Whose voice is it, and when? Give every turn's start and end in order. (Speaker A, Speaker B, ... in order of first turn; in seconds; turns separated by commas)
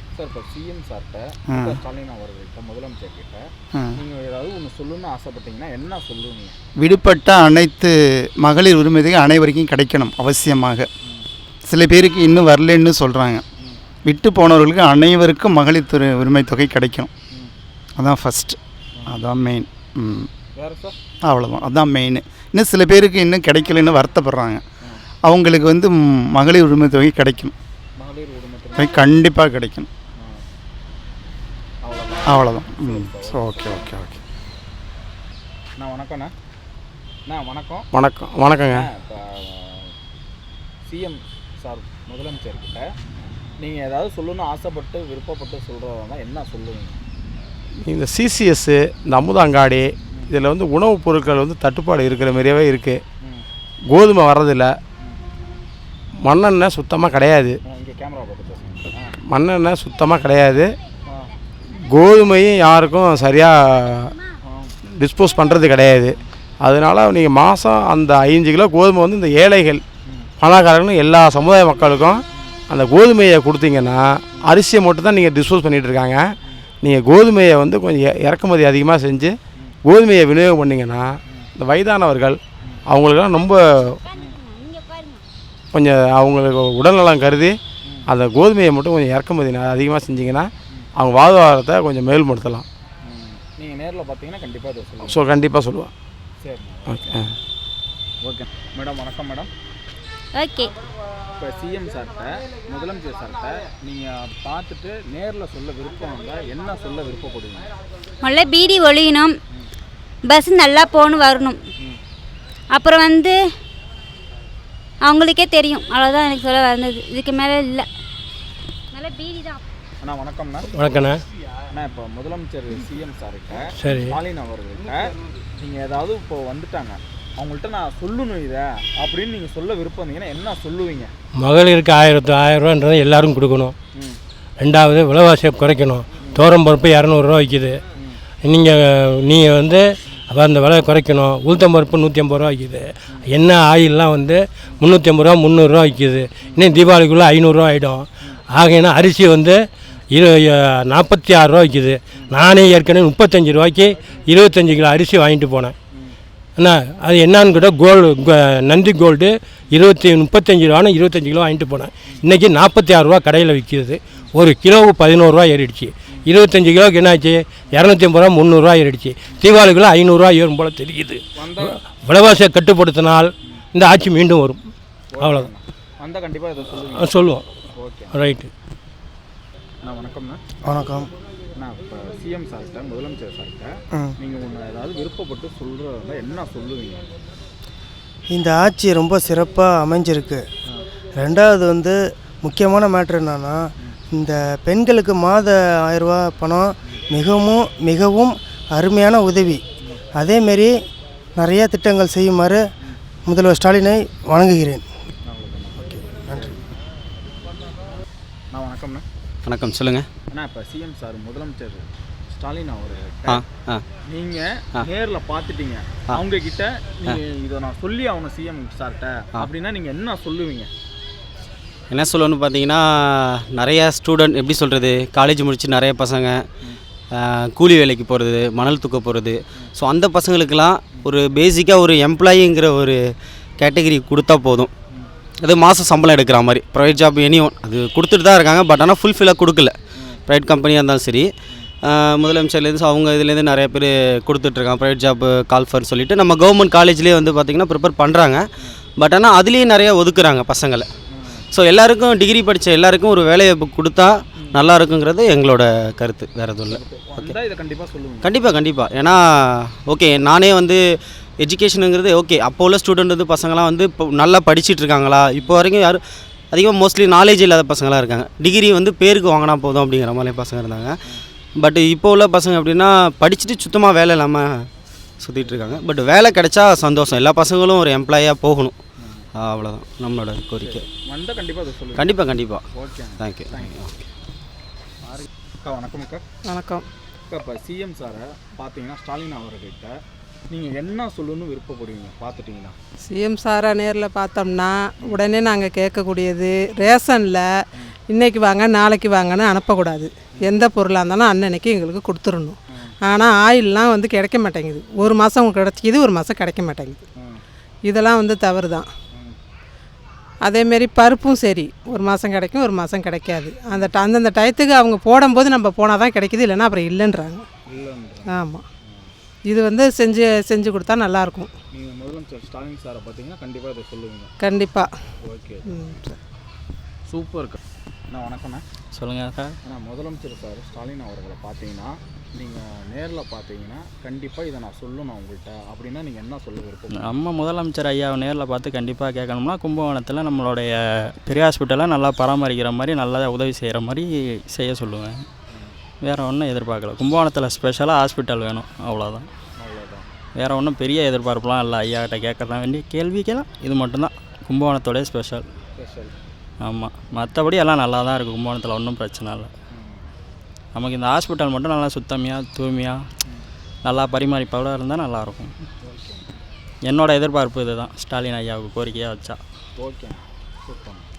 Speaker A: 0.1-6.6, Speaker B: 1.5-1.8, Speaker B: 6.8-10.9, Speaker B: 11.6-13.4, Speaker B: 14.1-17.1, Speaker B: 18.0-20.3, Speaker A: 20.6-21.0, Speaker B: 21.2-24.6, Speaker B: 25.2-27.5, Speaker A: 28.0-29.2, Speaker B: 28.8-29.9, Speaker A: 30.2-30.4, Speaker A: 31.8-34.0, Speaker B: 32.3-34.2, Speaker A: 35.8-36.3, Speaker A: 37.3-37.9, Speaker C: 38.0-38.9, Speaker A: 38.6-39.9, Speaker A: 40.9-42.9, Speaker A: 43.6-47.0, Speaker C: 47.8-53.0, Speaker A: 50.1-50.4, Speaker C: 53.9-54.7, Speaker C: 56.2-57.6, Speaker A: 57.6-59.2, Speaker C: 59.3-60.7, Speaker C: 61.9-64.1, Speaker A: 64.4-64.8, Speaker C: 65.0-69.8, Speaker A: 70.0-70.3, Speaker C: 70.4-76.2, Speaker A: 72.3-72.5, Speaker C: 76.8-79.4, Speaker C: 79.9-81.1, Speaker C: 81.6-82.4, Speaker C: 82.9-83.6, Speaker D: 84.1-85.2, Speaker C: 85.7-87.6, Speaker A: 87.8-88.1, Speaker C: 88.1-90.5, Speaker C: 91.0-92.7, Speaker A: 93.0-95.4, Speaker C: 95.1-95.9, Speaker A: 96.4-97.2, Speaker A: 98.2-99.5, Speaker D: 100.3-100.7, Speaker A: 101.4-107.7, Speaker D: 108.2-109.3, Speaker D: 110.2-111.6, Speaker D: 112.7-113.4, Speaker D: 115.0-117.9, Speaker D: 118.9-119.6, Speaker A: 120.0-120.7, Speaker E: 120.7-121.2, Speaker A: 121.7-131.1, Speaker E: 123.8-124.2, Speaker E: 131.4-133.8, Speaker E: 134.6-137.8, Speaker E: 138.4-155.8, Speaker E: 156.6-174.6, Speaker A: 171.4-171.8, Speaker A: 175.1-177.1, Speaker E: 175.2-175.5, Speaker E: 176.9-177.5, Speaker A: 177.7-178.2, Speaker E: 178.1-178.5, Speaker A: 179.8-180.4, Speaker F: 180.7-181.1, Speaker A: 181.6-187.1, Speaker F: 188.3-190.4, Speaker F: 191.2-191.9, Speaker F: 192.5-193.6, Speaker F: 194.2-199.6, Speaker F: 200.2-200.7, Speaker F: 201.4-202.6, Speaker F: 203.3-204.8, Speaker A: 205.2-206.5, Speaker F: 205.9-206.5, Speaker A: 208.5-209.1, Speaker G: 209.5-210.1, Speaker A: 210.3-213.4, Speaker G: 213.3-213.8, Speaker A: 214.0-220.7, Speaker G: 221.9-226.4, Speaker G: 227.2-233.0, Speaker G: 233.6-234.7, Speaker G: 235.4-239.8, Speaker G: 240.3-241.3, Speaker G: 241.9-248.4, Speaker G: 249.0-250.9, Speaker A: 251.1-251.4, Speaker G: 251.5-257.3, Speaker A: 256.7-258.4, Speaker G: 258.2-260.8, Speaker G: 261.4-266.0, Speaker A: 265.4-265.6, Speaker G: 266.5-270.9, Speaker G: 271.6-274.6, Speaker G: 275.2-278.7, Speaker A: 275.4-275.8, Speaker A: 279.0-279.2, Speaker G: 279.4-280.8, Speaker A: 280.6-282.2, Speaker G: 282.0-282.6, Speaker A: 282.7-283.8, Speaker G: 283.2-283.9, Speaker A: 285.1-286.2, Speaker H: 286.5-286.9, Speaker A: 287.3-292.8, Speaker H: 293.1-297.5, Speaker H: 298.1-307.0, Speaker A: 307.2-307.4, Speaker H: 307.9-308.9, Speaker A: 309.1-309.4, Speaker H: 310.4-317.5, Speaker A: 317.7-319.0, Speaker H: 318.3-318.6, Speaker H: 319.5-321.5, Speaker A: 321.7-324.3, Speaker H: 324.4-324.9, Speaker A: 325.2-325.7, Speaker H: 325.7-326.1, Speaker A: 327.1-327.6, Speaker A: 328.1-328.6, Speaker I: 328.9-329.5, Speaker A: 329.6-337.2, Speaker I: 336.9-345.3, Speaker A: 345.5-345.8, Speaker I: 346.0-349.3, Speaker A: 349.6-350.1, Speaker I: 350.4-355.4, Speaker A: 355.8-356.1, Speaker I: 356.6-359.5, Speaker A: 359.7-360.1, Speaker I: 360.7-363.1, Speaker I: 363.8-365.5, Speaker A: 365.8-366.3, Speaker I: 366.9-369.4, Speaker A: 369.8-371.1